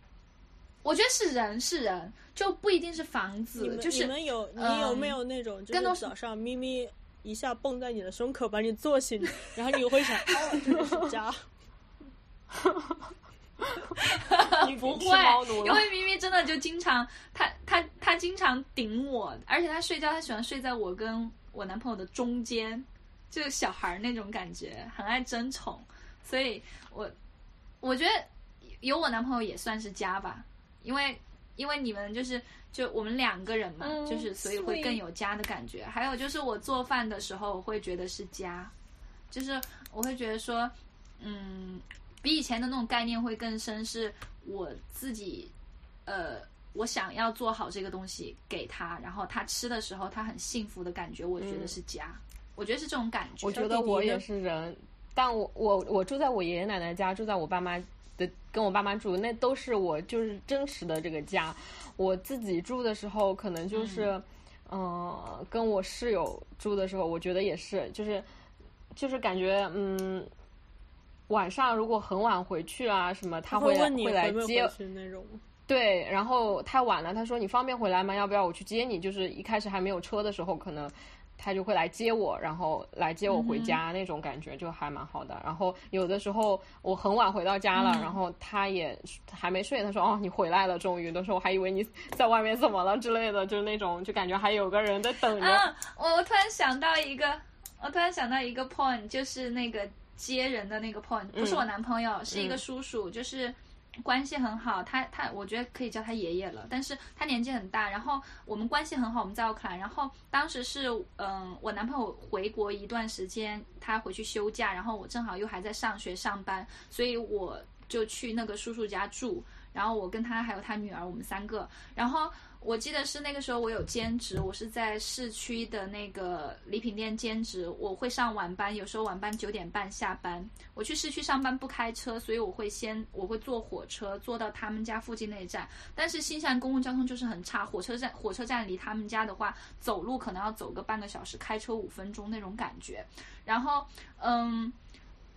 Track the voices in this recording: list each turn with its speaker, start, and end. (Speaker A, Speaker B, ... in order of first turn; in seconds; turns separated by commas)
Speaker A: 0.8-5.2, Speaker B: 3.6-11.4, Speaker A: 5.7-6.1, Speaker C: 12.6-13.0, Speaker A: 14.0-27.1, Speaker C: 14.4-15.9, Speaker A: 27.8-38.7, Speaker C: 33.8-35.0, Speaker A: 39.3-45.5, Speaker A: 46.1-54.2, Speaker C: 51.4-51.8, Speaker C: 53.4-68.3, Speaker A: 63.7-64.1, Speaker C: 68.9-70.3, Speaker C: 71.3-74.7, Speaker B: 73.5-75.4, Speaker C: 75.7-95.7, Speaker A: 83.3-83.8, Speaker A: 87.8-88.2, Speaker A: 95.4-144.8, Speaker C: 101.3-101.7, Speaker C: 102.3-102.6